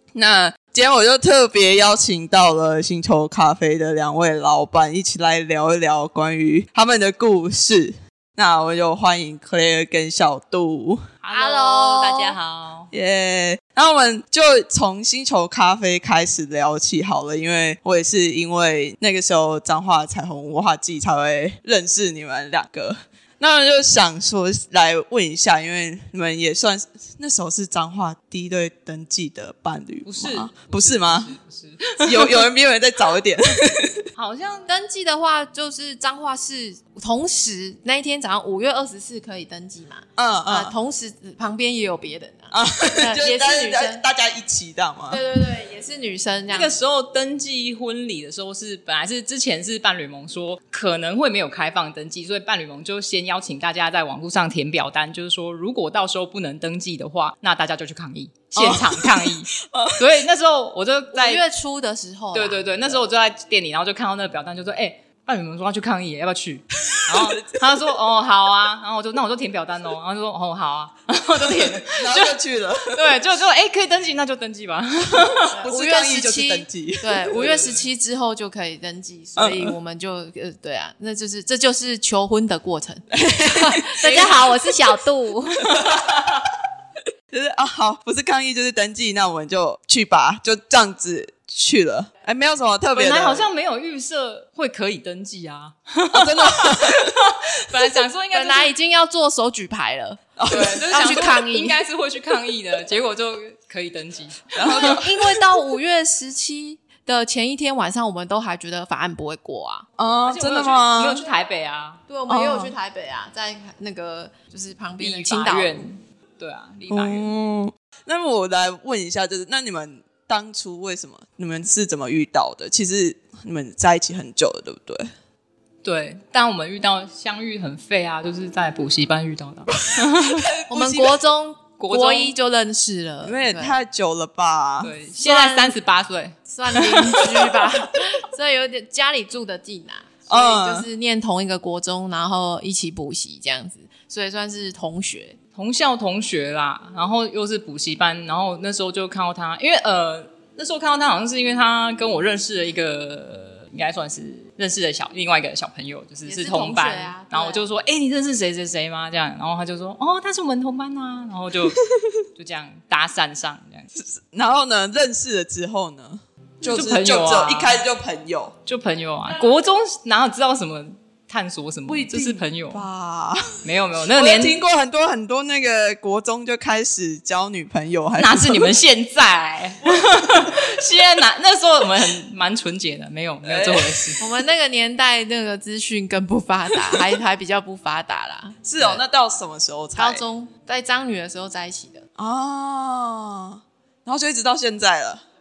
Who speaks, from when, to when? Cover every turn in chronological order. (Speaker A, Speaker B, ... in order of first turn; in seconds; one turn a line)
Speaker A: 0.1-11.0
Speaker B: 11.2-12.9
Speaker C: 11.3-12.4
Speaker A: 12.9-31.3
Speaker B: 30.1-32.4
Speaker A: 32.0-34.0
Speaker B: 34.1-34.7
Speaker C: 34.7-44.0
Speaker A: 40.2-40.7
Speaker A: 42.5-45.2
Speaker C: 45.1-46.8
Speaker B: 46.5-61.4
Speaker A: 58.5-60.0
Speaker C: 61.1-63.0
Speaker B: 62.3-72.4
Speaker A: 66.9-67.6
Speaker A: 71.5-73.0
Speaker B: 72.9-75.5
Speaker A: 75.2-77.8
Speaker C: 75.5-85.7
Speaker A: 79.4-79.7
Speaker A: 83.1-84.5
Speaker B: 84.0-84.3
Speaker A: 85.6-86.1
Speaker B: 85.8-86.2
Speaker A: 87.3-93.5
Speaker B: 92.9-98.7
Speaker A: 96.1-97.2
Speaker C: 98.3-101.8
Speaker A: 100.4-100.8
Speaker B: 100.5-105.0
Speaker A: 104.5-105.4
Speaker C: 104.7-109.9
Speaker A: 110.0-111.2
Speaker B: 110.2-112.0
Speaker C: 112.1-115.9
Speaker A: 112.3-112.7
Speaker B: 115.0-117.3
Speaker A: 116.9-125.1
Speaker B: 125.8-130.5
Speaker A: 129.9-131.2
Speaker C: 130.7-133.8
Speaker B: 131.8-132.3
Speaker A: 133.2-134.9
Speaker B: 134.8-137.7
Speaker C: 135.2-135.8
Speaker C: 136.5-145.4
Speaker A: 140.3-140.9
Speaker B: 145.6-161.8
Speaker C: 156.2-157.6
Speaker B: 162.3-163.9
Speaker A: 163.9-168.5
Speaker B: 166.6-167.8
Speaker B: 168.7-172.8
Speaker A: 171.8-178.8
Speaker B: 173.6-174.6
Speaker B: 178.2-184.2
Speaker A: 183.4-184.1
Speaker C: 184.2-188.6
Speaker A: 188.6-190.2
Speaker C: 189.9-192.0
Speaker A: 192.2-195.2